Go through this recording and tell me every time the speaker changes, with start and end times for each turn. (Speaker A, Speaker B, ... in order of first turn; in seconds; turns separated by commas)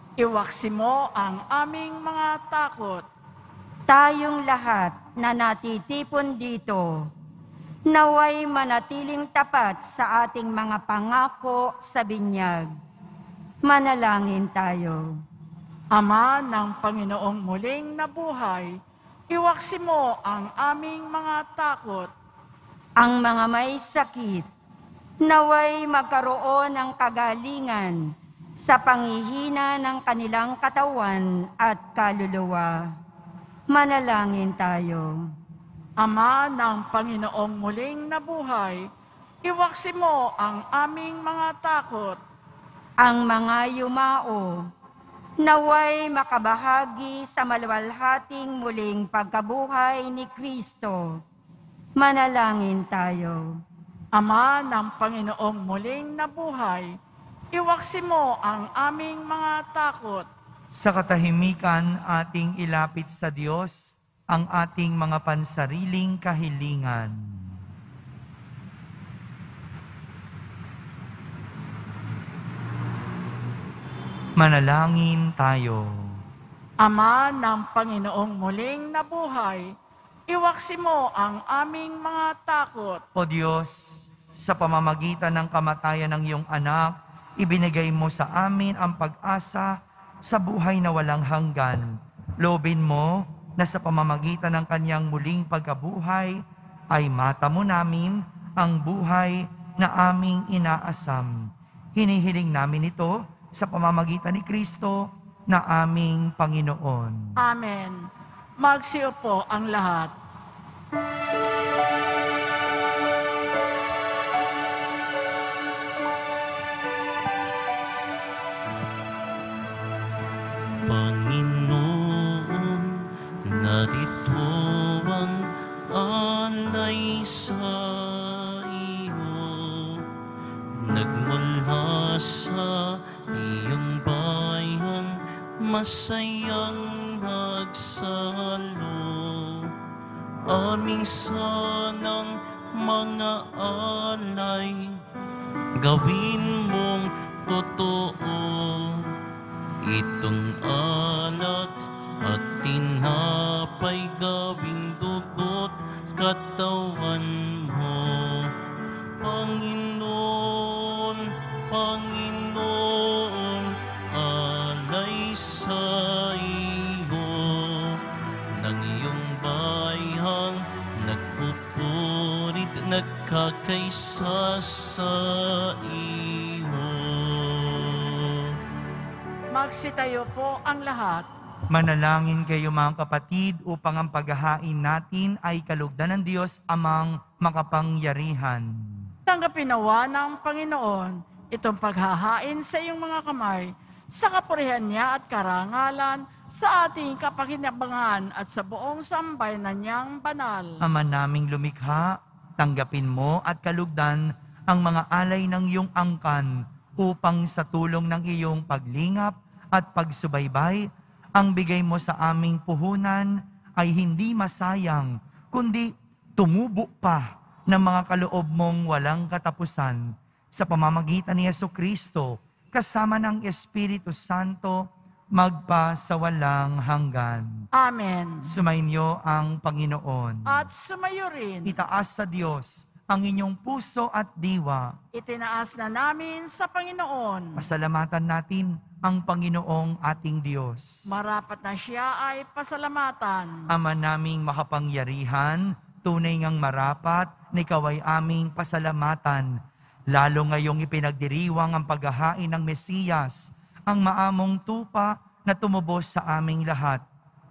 Speaker A: 0.2-3.0, Speaker B: 3.9-7.1, Speaker B: 7.9-12.7, Speaker B: 13.6-15.2, Speaker A: 15.9-18.8, Speaker A: 19.3-22.1, Speaker B: 23.0-24.5, Speaker B: 25.2-28.0, Speaker B: 28.6-32.9, Speaker B: 33.7-35.3, Speaker A: 36.0-38.9, Speaker A: 39.4-42.2, Speaker B: 43.0-44.7, Speaker B: 45.4-51.2, Speaker B: 52.0-53.5, Speaker A: 54.1-56.9, Speaker A: 57.5-60.2, Speaker C: 60.7-67.2, Speaker C: 74.4-76.2, Speaker A: 76.8-79.7, Speaker A: 80.3-83.0, Speaker C: 83.1-107.3, Speaker A: 107.4-108.1, Speaker A: 108.6-110.1, Speaker D: 120.8-130.1, Speaker D: 130.8-139.7, Speaker D: 140.4-145.0, Speaker D: 145.8-149.1, Speaker D: 149.8-158.5, Speaker D: 159.2-168.0, Speaker D: 168.5-178.6, Speaker A: 179.5-181.2, Speaker C: 181.7-189.1, Speaker A: 189.3-200.8, Speaker C: 200.8-227.7, Speaker A: 227.8-228.5, Speaker C: 228.4-230.7, Speaker A: 230.4-231.8, Speaker C: 231.6-234.9, Speaker A: 235.1-237.6, Speaker C: 237.6-241.0, Speaker A: 241.1-243.7, Speaker C: 243.7-257.0